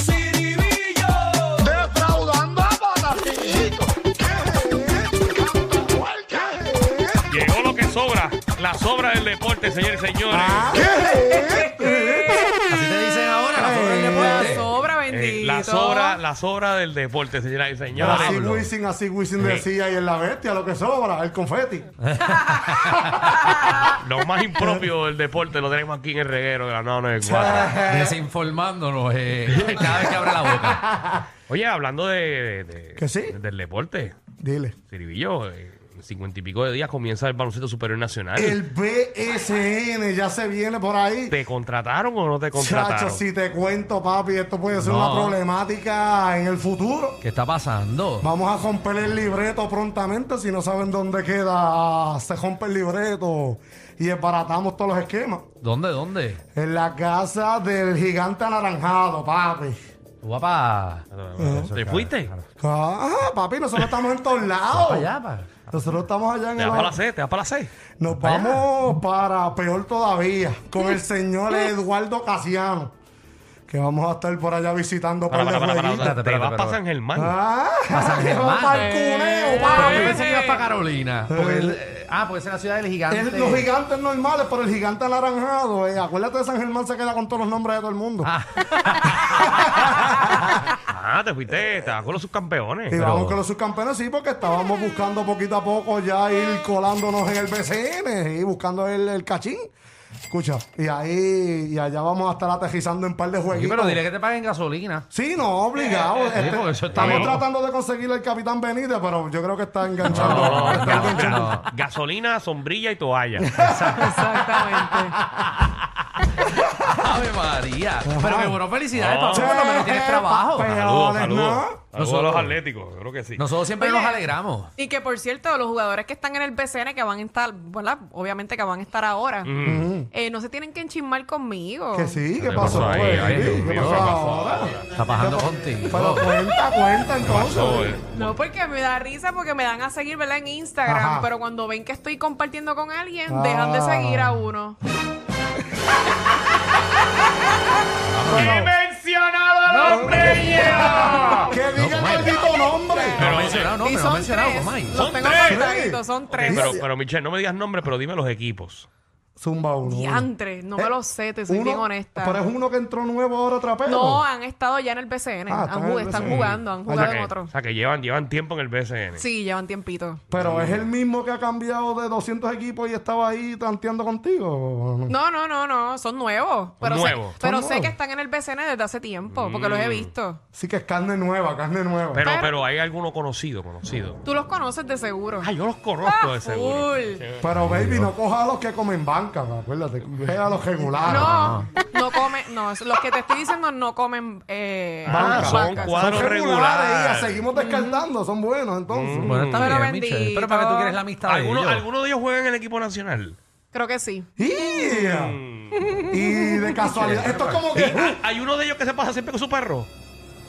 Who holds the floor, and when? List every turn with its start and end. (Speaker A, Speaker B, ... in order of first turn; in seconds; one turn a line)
Speaker A: 0.4-1.1
Speaker B: 1.6-7.2
Speaker C: 7.3-10.9
Speaker B: 10.3-12.5
Speaker D: 10.9-12.6
Speaker A: 12.5-14.7
Speaker B: 13.6-14.6
Speaker D: 13.9-16.2
Speaker C: 15.1-18.4
Speaker A: 18.0-18.7
Speaker B: 18.0-21.9
Speaker C: 19.4-19.7
Speaker A: 22.1-23.4
Speaker C: 23.7-27.8
Speaker B: 24.6-24.9
Speaker B: 27.2-28.2
Speaker A: 27.7-30.9
Speaker B: 30.8-31.2
Speaker C: 31.5-34.2
Speaker B: 33.0-33.4
Speaker B: 34.4-34.8
Speaker C: 34.9-38.6
Speaker B: 38.4-41.4
Speaker C: 41.3-43.2
Speaker B: 42.5-47.2
Speaker A: 44.8-45.4
Speaker A: 47.2-48.3
Speaker B: 48.2-55.5
Speaker A: 55.6-56.4
Speaker B: 56.5-59.8
Speaker A: 60.2-62.4
Speaker C: 61.1-62.3
Speaker B: 61.4-61.8
Speaker B: 62.6-65.1
Speaker A: 64.7-65.7
Speaker B: 65.7-67.0
Speaker C: 66.6-67.7
Speaker B: 68.0-72.9
Speaker A: 68.2-68.7
Speaker B: 73.7-76.2
Speaker C: 75.3-77.4
Speaker A: 76.0-76.8
Speaker B: 77.2-80.2
Speaker A: 77.9-79.0
Speaker D: 79.1-80.6
Speaker A: 79.6-83.7
Speaker B: 81.3-81.8
Speaker B: 83.1-88.3
Speaker A: 88.2-89.5
Speaker B: 89.2-90.5
Speaker C: 90.9-93.0
Speaker B: 92.9-99.7
Speaker A: 93.0-93.4
Speaker B: 100.3-104.0
Speaker A: 103.5-105.1
Speaker B: 105.1-111.6
Speaker A: 106.3-107.4
Speaker C: 107.0-107.3
Speaker A: 110.1-111.7
Speaker C: 110.2-113.5
Speaker B: 113.4-114.8
Speaker A: 113.5-114.4
Speaker D: 113.9-115.2
Speaker B: 116.5-116.9
Speaker A: 116.8-120.7
Speaker B: 118.1-118.6
Speaker C: 118.9-119.6
Speaker B: 119.3-121.9
Speaker C: 120.6-123.5
Speaker A: 122.0-122.5
Speaker A: 123.4-124.7
Speaker D: 123.8-124.2
Speaker D: 124.8-129.5
Speaker C: 129.4-129.9
Speaker B: 129.6-130.1
Speaker D: 130.1-132.2
Speaker B: 131.9-137.9
Speaker C: 132.4-135.0
Speaker A: 132.5-134.1
Speaker A: 134.9-136.3
Speaker C: 137.3-138.3
Speaker D: 138.0-144.8
Speaker B: 140.9-141.3
Speaker B: 143.3-144.4
Speaker A: 148.0-148.6
Speaker C: 148.2-151.6
Speaker B: 148.2-148.7
Speaker A: 149.7-150.9
Speaker B: 149.8-153.3
Speaker A: 151.8-152.4
Speaker D: 153.1-156.8
Speaker A: 153.2-155.0
Speaker C: 153.2-153.7
Speaker C: 154.9-155.6
Speaker B: 155.4-156.8
Speaker C: 156.3-158.9
Speaker B: 159.4-160.9
Speaker D: 159.8-162.4
Speaker B: 161.5-164.2
Speaker D: 163.8-167.5
Speaker B: 165.5-167.2
Speaker C: 166.2-169.2
Speaker D: 169.2-170.2
Speaker C: 170.3-170.9
Speaker B: 170.3-175.2
Speaker D: 175.1-180.4
Speaker C: 176.8-177.4
Speaker B: 177.4-177.9
Speaker C: 179.3-180.1
Speaker B: 180.5-182.3
Speaker C: 182.1-184.2
Speaker D: 182.2-182.6
Speaker D: 184.2-185.5
Speaker C: 185.4-187.6
Speaker D: 186.0-187.2
Speaker B: 187.4-191.4
Speaker A: 187.6-188.1
Speaker D: 191.0-196.4
Speaker A: 191.1-191.7
Speaker C: 195.0-197.4
Speaker B: 195.1-199.3
Speaker D: 197.5-198.1
Speaker C: 198.9-199.8
Speaker A: 199.2-201.9
Speaker D: 199.5-201.0
Speaker C: 201.2-203.4
Speaker D: 203.7-204.3
Speaker B: 204.4-205.4
Speaker C: 204.8-205.9
Speaker D: 205.8-206.9
Speaker B: 206.1-208.2
Speaker A: 206.9-207.6
Speaker C: 207.1-209.9